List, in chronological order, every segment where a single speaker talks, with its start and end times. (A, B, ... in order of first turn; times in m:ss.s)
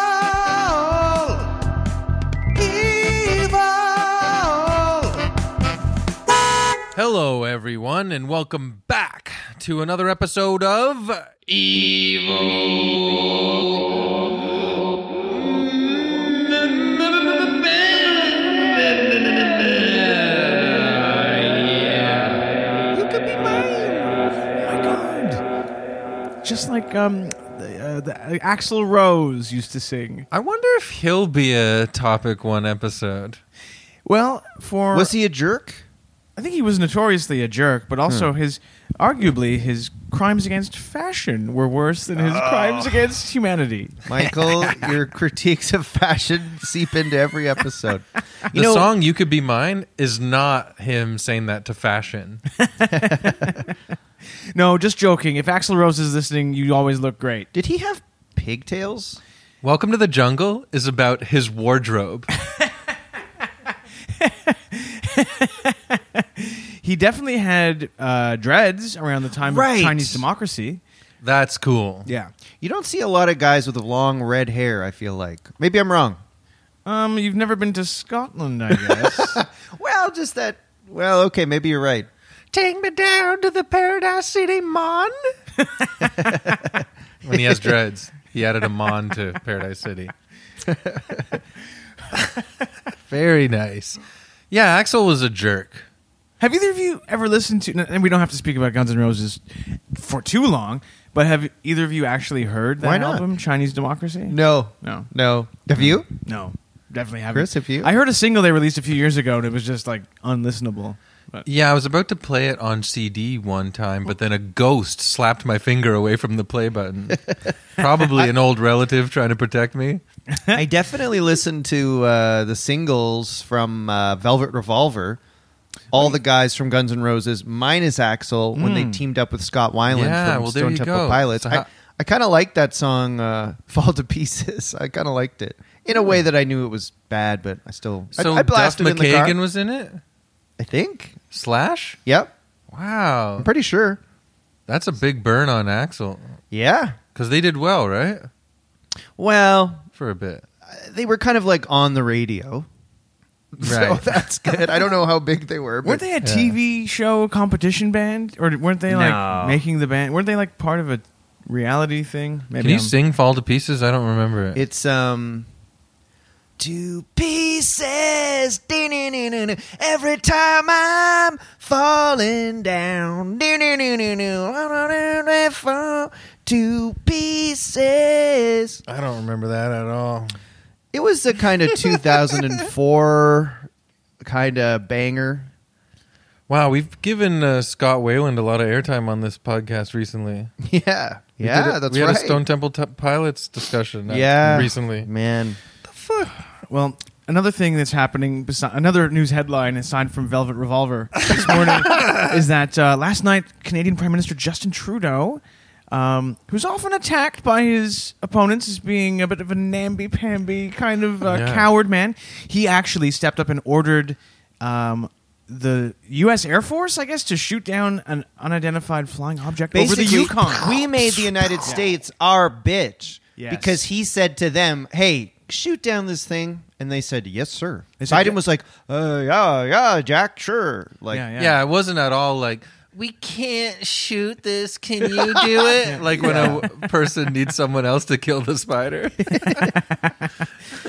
0:00.4-0:01.0 A
0:02.7-0:04.3 A
0:06.9-0:14.0 B
0:15.3-0:22.4 B
0:22.9-0:24.2 A
0:24.6-0:25.4 C
0:26.4-0:30.3 C
0:30.3-0:33.4 B
0:34.0-0:35.1 C
0:34.9-0:35.8 A
0:36.4-0:44.8 C
0:42.1-0:43.1 A
0:44.0-0:48.9 A
0:48.5-0:52.4 B
0:52.7-0:53.6 C
0:53.0-0:53.3 A
0:54.5-0:57.5 C
0:57.5-0:59.2 A
0:59.6-1:02.3 B
1:04.1-1:10.8 C
1:09.4-1:10.2 A
1:11.2-1:12.1 B
1:12.0-1:12.3 C
1:12.6-1:16.2 A
1:16.8-1:19.4 C
1:19.1-1:22.1 A
1:22.5-1:25.1 B
1:26.2-1:26.8 A
1:27.2-1:30.1 B
1:30.7-1:31.2 A
1:33.1-1:35.8 B
1:36.4-1:45.1 C
1:42.8-1:43.2 A
1:44.3-1:46.1 A
1:45.8-1:51.5 C
1:47.3-1:47.9 A
1:51.4-2:00.0 B
1:58.0-1:58.3 A
2:00.3-2:00.6 C
2:00.5-2:05.2 A
2:05.9-2:19.4 A
2:08.5-2:09.0 C
2:09.9-2:11.6 B
2:18.1-2:20.0 B
2:20.6-2:21.2 A
2:21.3-2:22.0 B
2:22.0-2:22.3 A
2:22.7-2:23.5 B
2:23.4-2:24.0 A
2:24.7-2:26.3 B
2:26.5-2:27.0 A
2:27.1-2:28.3 B
2:29.2-2:29.8 A
2:29.9-2:30.4 B
2:30.6-2:32.7 A
2:33.5-2:36.0 A
2:33.6-2:34.0 B
2:35.8-2:42.9 C
2:36.2-2:36.5 B
2:38.9-2:39.6 A
2:42.6-2:44.6 B
2:44.5-2:45.5 A
2:46.6-2:58.8 A
2:58.9-3:00.3 B
3:00.9-3:03.7 A
3:04.2-3:05.5 A
3:06.5-3:10.5 B
3:10.6-3:12.4 A
3:11.4-3:15.1 B
3:14.1-3:15.6 A
3:15.8-3:16.3 B
3:16.7-3:42.0 C
3:21.3-3:22.3 B
3:31.2-3:31.7 B
3:39.7-3:51.3 A
3:43.4-3:43.8 C
3:48.0-3:48.4 C
3:51.1-3:51.6 C
3:51.4-3:59.7 B
3:55.1-3:56.6 A
3:55.8-3:56.6 C
3:59.4-4:00.4 C